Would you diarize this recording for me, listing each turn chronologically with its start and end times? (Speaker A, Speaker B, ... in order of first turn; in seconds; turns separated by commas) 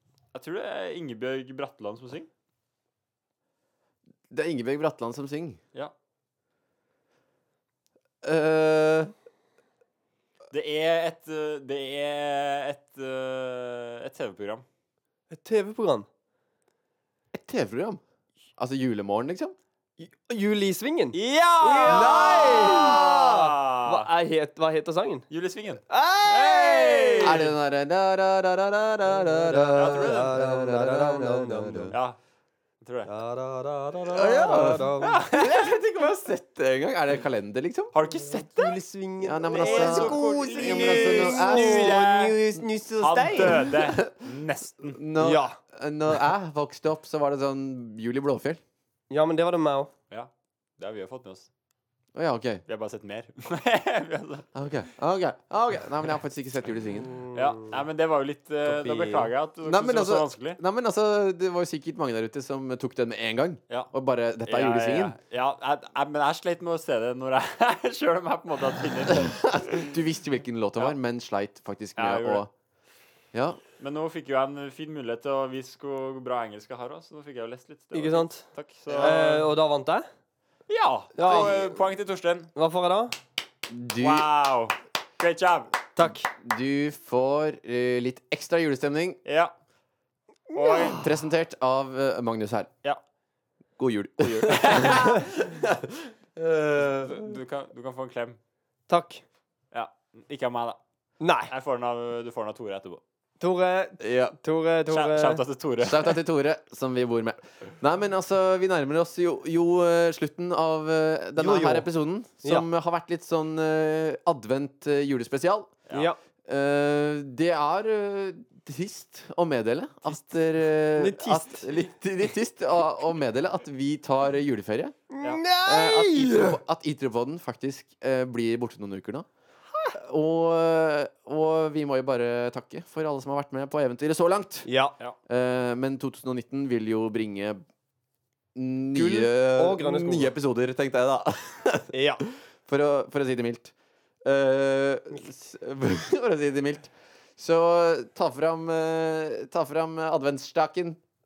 Speaker A: 0.3-2.3, Speaker B: 4.3-5.6, Speaker B: 8.2-9.1, Speaker A: 10.5-14.7, Speaker C: 15.3-16.1, Speaker B: 17.3-18.0, Speaker B: 18.6-19.6, Speaker C: 20.0-25.3, Speaker A: 21.1-24.1, Speaker B: 21.9-23.2, Speaker A: 25.3-27.5, Speaker C: 25.9-27.5, Speaker B: 27.2-32.0, Speaker C: 29.1-31.9, Speaker A: 29.8-30.4, Speaker A: 31.9-32.2, Speaker A: 32.8-33.1, Speaker C: 33.1-35.2, Speaker B: 34.1-37.9, Speaker A: 35.0-35.5, Speaker A: 37.9-38.8, Speaker C: 38.1-43.7, Speaker B: 39.2-42.1, Speaker A: 39.5-42.4, Speaker A: 43.0-45.0, Speaker B: 43.4-44.2, Speaker B: 44.9-48.6, Speaker C: 45.2-45.6, Speaker C: 49.1-49.9, Speaker A: 50.1-51.5, Speaker B: 52.1-52.6, Speaker A: 52.7-54.5, Speaker B: 54.5-57.1, Speaker C: 57.1-57.7, Speaker A: 57.3-60.6, Speaker C: 58.6-59.3, Speaker B: 59.6-65.2, Speaker A: 64.5-69.9, Speaker B: 69.1-72.5, Speaker A: 72.0-72.5, Speaker B: 73.3-73.6, Speaker A: 73.8-79.5, Speaker C: 77.9-78.5, Speaker B: 78.9-79.2, Speaker C: 79.0-80.1, Speaker A: 80.7-82.5, Speaker C: 81.2-81.6, Speaker B: 81.3-81.6, Speaker C: 82.5-83.2, Speaker B: 83.7-84.3, Speaker A: 84.0-85.8, Speaker C: 86.0-86.3, Speaker B: 86.4-89.2, Speaker A: 89.3-89.5, Speaker C: 90.5-91.0, Speaker A: 90.5-91.1, Speaker B: 90.9-92.7, Speaker B: 93.8-97.3, Speaker A: 94.2-95.2, Speaker A: 96.8-98.4, Speaker C: 98.9-99.2, Speaker A: 99.7-100.8, Speaker C: 101.2-101.5, Speaker A: 101.5-103.0, Speaker C: 103.4-105.4, Speaker B: 104.0-104.4, Speaker A: 104.9-106.2, Speaker B: 105.8-115.8, Speaker C: 111.4-111.9, Speaker C: 115.9-116.2, Speaker B: 116.5-125.0, Speaker C: 121.0-121.7, Speaker C: 125.1-126.6, Speaker B: 125.6-129.3, Speaker B: 129.9-134.7, Speaker C: 134.7-134.9, Speaker B: 135.3-137.6, Speaker B: 138.6-151.0, Speaker C: 138.9-140.3, Speaker C: 141.9-142.2